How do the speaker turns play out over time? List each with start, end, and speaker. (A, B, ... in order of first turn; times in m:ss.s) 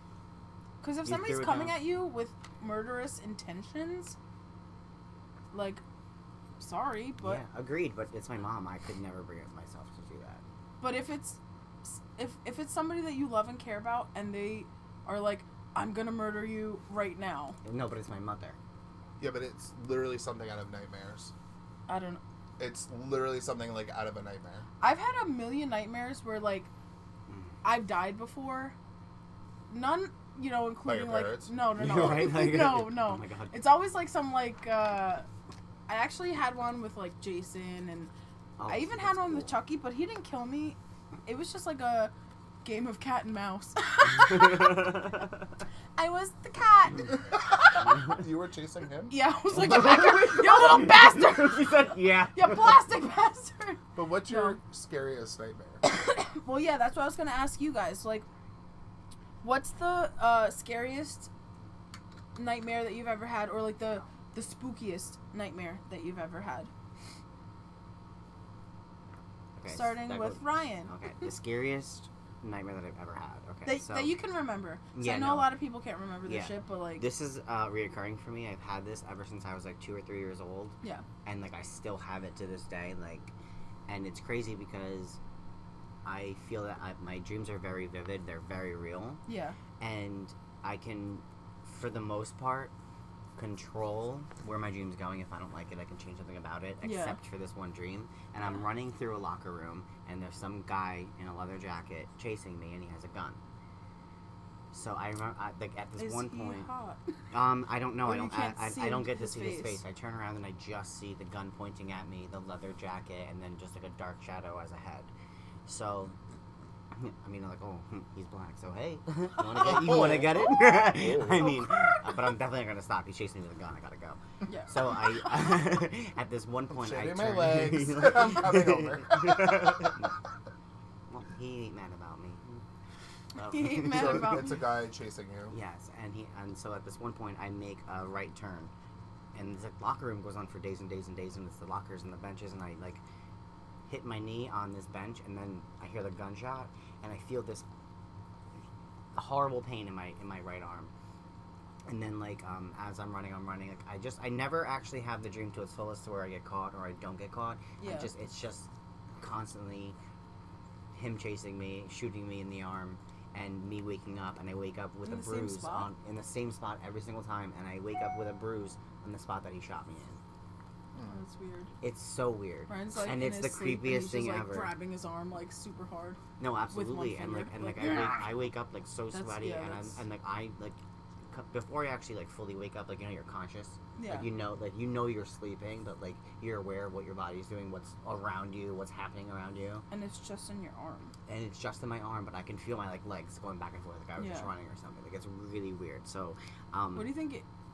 0:00.8-0:04.2 A
0:01.0-0:01.8 B
0:05.5-0:05.8 A
0:06.6-0:07.4 A
0:07.2-0:10.4 B
0:10.8-0:17.6 A
0:17.6-0:18.6 B
0:19.2-0:21.3 C
0:21.9-0:22.2 A
0:22.6-0:24.7 C
0:24.8-0:26.7 A
0:27.3-0:27.6 B
0:27.6-0:28.8 A
0:29.7-0:35.3 A
0:30.8-0:31.5 C
0:31.7-0:33.6 B
0:35.9-0:38.1 A
0:38.6-0:39.5 B
0:38.7-0:42.1 A
0:42.6-0:45.1 A
0:44.2-0:45.2 B
0:46.0-0:48.0 A
0:48.0-0:49.2 C
0:49.1-0:54.6 A
0:49.6-0:52.9 B
0:54.0-0:55.8 C
0:55.8-0:58.3 A
0:59.4-1:01.3 A
1:02.4-1:06.7 A
1:09.6-1:14.1 B
1:09.7-1:10.9 A
1:13.7-1:17.1 A
1:14.9-1:15.6 B
1:16.2-1:23.3 B
1:23.9-1:25.2 B
1:26.0-1:29.2 B
1:29.3-1:29.6 A
1:29.8-1:32.7 B
1:33.4-1:43.4 B
1:36.8-1:37.2 A
1:44.7-1:46.7 B
1:46.0-1:47.0 A
1:47.3-1:55.1 B
1:48.0-1:49.8 A
1:55.7-1:56.2 B
1:56.9-2:10.1 B
1:59.5-2:01.6 C
2:04.5-2:05.0 A
2:06.7-2:10.0 C
2:11.1-2:12.6 B
2:13.4-2:14.4 B
2:13.4-2:14.6 A
2:13.9-2:15.6 C
2:15.5-2:18.7 B
2:19.3-2:23.0 B
2:23.9-2:27.7 B
2:29.2-2:30.9 B
2:31.9-2:38.7 B
2:37.8-2:38.1 A
2:39.2-2:40.0 B
2:40.9-2:50.2 B
2:45.0-2:45.9 A
2:51.0-2:51.7 A
2:51.8-2:54.7 B
2:52.7-2:58.3 A
2:56.4-3:00.8 B
2:59.1-3:00.0 A
3:01.3-3:09.8 B
3:04.0-3:04.3 A
3:09.9-3:11.1 A
3:11.3-3:17.1 B
3:14.2-3:14.5 A
3:17.0-3:17.4 A